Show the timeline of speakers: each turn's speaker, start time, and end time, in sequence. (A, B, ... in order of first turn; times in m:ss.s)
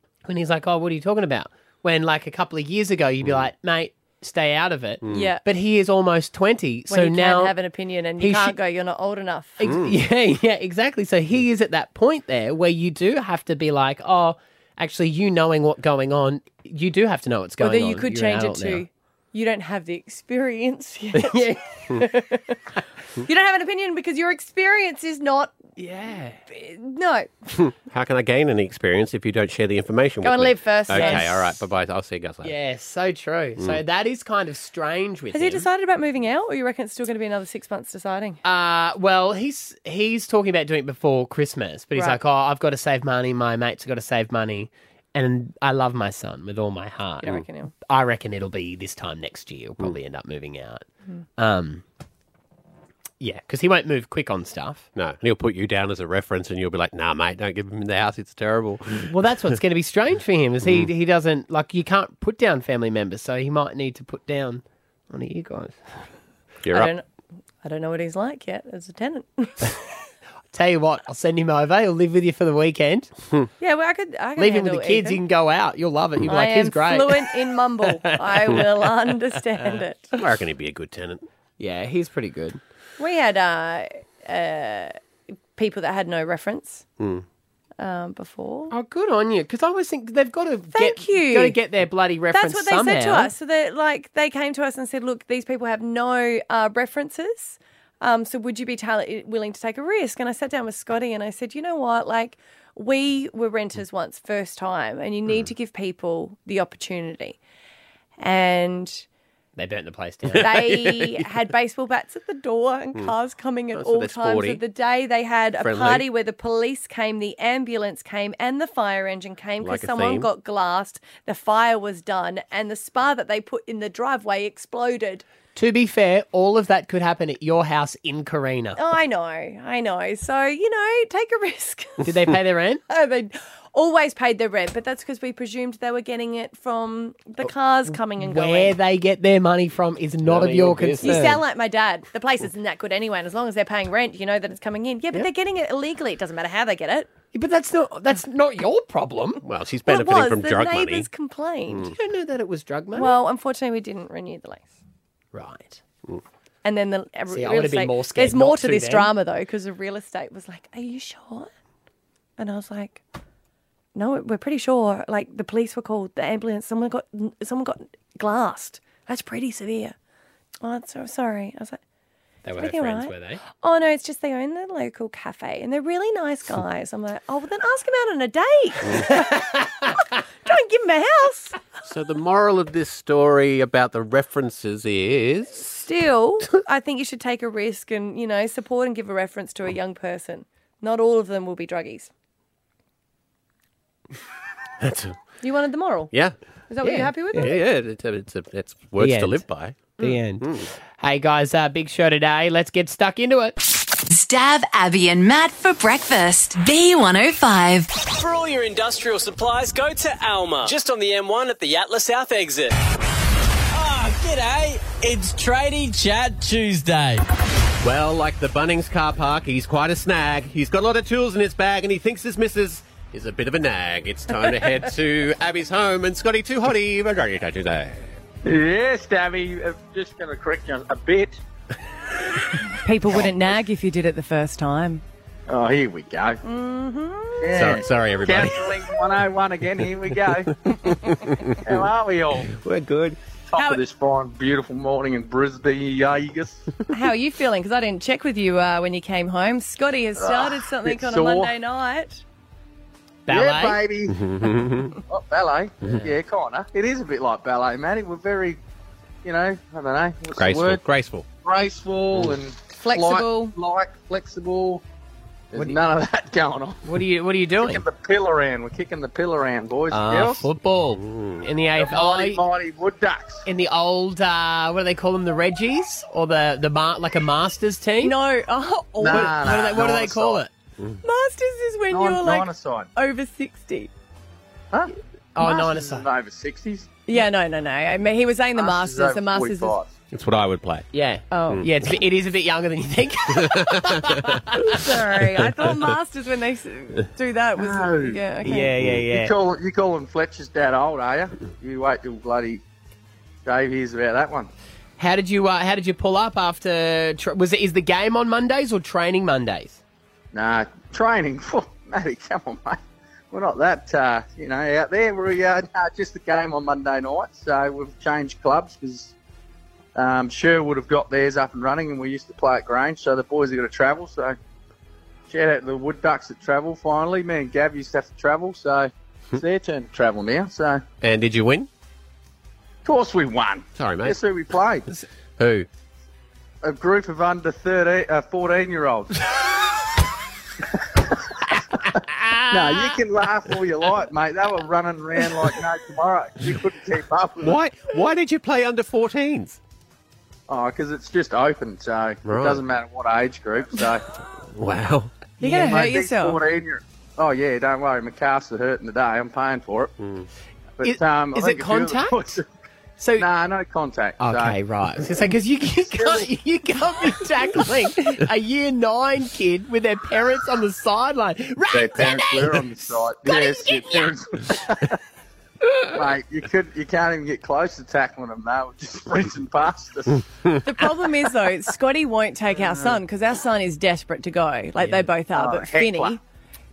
0:00.2-0:07.5 A
0:05.0-0:05.3 B
0:05.1-0:05.4 C
0:06.9-0:09.6 C
0:08.2-0:08.6 A
0:09.6-0:18.8 A
0:09.6-0:10.0 B
0:17.6-0:22.2 C
0:21.2-0:22.2 A
0:23.2-0:25.6 C
0:25.8-0:26.4 A
0:26.5-0:27.5 C
0:27.7-0:32.6 B
0:30.2-0:31.5 C
0:30.9-0:31.3 A
0:32.4-0:35.6 A
0:35.3-0:38.4 C
0:38.4-0:50.8 A
0:47.2-0:47.7 C
0:51.4-0:51.8 A
0:53.2-0:54.9 A
0:54.9-0:59.1 B
0:59.0-1:06.0 A
1:00.6-1:00.9 B
1:06.6-1:06.9 B
1:06.7-1:07.0 C
1:07.6-1:09.8 C
1:10.5-1:13.1 A
1:13.6-1:15.2 C
1:14.4-1:18.9 A
1:16.2-1:20.1 C
1:20.2-1:21.2 B
1:21.6-1:22.6 A
1:23.0-1:25.0 C
1:25.6-1:26.8 C
1:27.0-1:27.2 B
1:27.8-1:28.7 C
1:28.7-1:33.3 A
1:30.7-1:31.6 C
1:32.3-1:47.4 C
1:48.2-1:49.1 C
1:49.6-1:50.7 A
1:50.3-1:50.8 B
1:50.4-2:05.2 C
1:53.8-1:54.6 B
1:55.6-1:56.0 B
1:59.6-2:00.3 B
2:05.6-2:08.8 A
2:08.8-2:12.1 C
2:12.0-2:12.8 A
2:12.9-2:18.8 C
2:17.9-2:21.4 A
2:20.2-2:21.2 B
2:21.0-2:27.1 C
2:27.3-2:29.4 A
2:29.4-2:31.1 B
2:29.9-2:31.9 C
2:31.9-2:33.2 A
2:32.9-2:34.8 C
2:35.3-2:35.8 A
2:36.6-2:41.5 C
2:37.3-2:39.1 A
2:42.4-2:43.0 C
2:43.9-2:49.9 C
2:50.6-2:51.8 C
2:52.4-2:53.4 A
2:52.6-3:01.6 C
3:01.8-3:05.8 B
3:05.8-3:12.1 C
3:14.8-3:15.2 B
3:15.4-3:16.1 C
3:16.7-3:17.6 C
3:16.8-3:17.4 A
3:17.3-3:20.7 B
3:19.0-3:19.4 A
3:20.0-3:20.5 A
3:21.0-3:23.6 A
3:24.1-3:27.9 D
3:28.1-3:32.8 E
3:33.7-3:37.2 E
3:37.8-3:48.1 B
3:48.4-3:51.4 F
3:52.8-3:55.0 C
3:55.5-3:56.4 F
3:56.4-3:57.7 C
3:57.4-4:00.5 F
3:57.5-3:58.8 B
4:01.1-4:01.9 B
4:01.6-4:02.6 F
4:02.7-4:03.1 A
4:03.5-4:06.7 F
4:03.6-4:03.8 C
4:06.9-4:12.2 C
4:10.2-4:11.5 F
4:13.3-4:13.9 A
4:13.3-4:14.2 F
4:14.1-4:15.0 B
4:15.1-4:18.6 F
4:15.8-4:16.1 A
4:19.2-4:20.8 F
4:20.3-4:21.2 B
4:21.4-4:24.8 F
4:22.8-4:23.6 C
4:25.5-4:27.0 F
4:26.8-4:27.8 A
4:27.6-4:30.5 F
4:29.9-4:32.4 A
4:31.0-4:31.4 B
4:31.8-4:33.5 F
4:33.4-4:38.2 A
4:38.0-4:39.6 C
4:39.0-4:40.4 F
4:39.1-4:40.5 A
4:41.0-4:43.9 C
4:41.9-4:42.9 F
4:44.7-4:46.9 F
4:45.4-4:46.1 A
4:47.1-4:49.8 C
4:48.6-4:49.9 F
4:50.1-4:50.9 B
4:50.9-4:54.7 A
4:51.3-4:51.6 C
4:53.4-4:54.4 B
4:54.6-4:58.7 C
4:57.6-5:02.6 F
4:58.4-4:59.4 A
5:03.5-5:04.5 F
5:05.0-5:09.8 A
5:10.3-5:12.8 F
5:13.3-5:19.1 F
5:20.0-5:24.4 F
5:25.3-5:30.8 F
5:31.0-5:31.7 B
5:32.8-5:34.9 F
5:33.8-5:34.2 B
5:35.4-5:35.7 B
5:36.6-5:39.2 F
5:41.8-5:47.6 F
5:42.2-5:43.0 A
5:47.4-5:49.6 B
5:50.5-5:54.0 F
5:52.2-5:52.6 B
5:54.5-5:55.1 B
5:55.4-5:56.4 C
5:55.4-5:59.9 F
6:00.0-6:00.3 B
6:00.8-6:02.4 F
6:00.8-6:02.4 A
6:03.0-6:03.3 A
6:03.2-6:04.6 F
6:04.2-6:12.7 A
6:05.9-6:06.3 F
6:11.7-6:15.0 F
6:13.3-6:13.9 A
6:15.9-6:20.2 F
6:20.6-6:26.2 C
6:22.6-6:23.0 F
6:25.4-6:26.2 F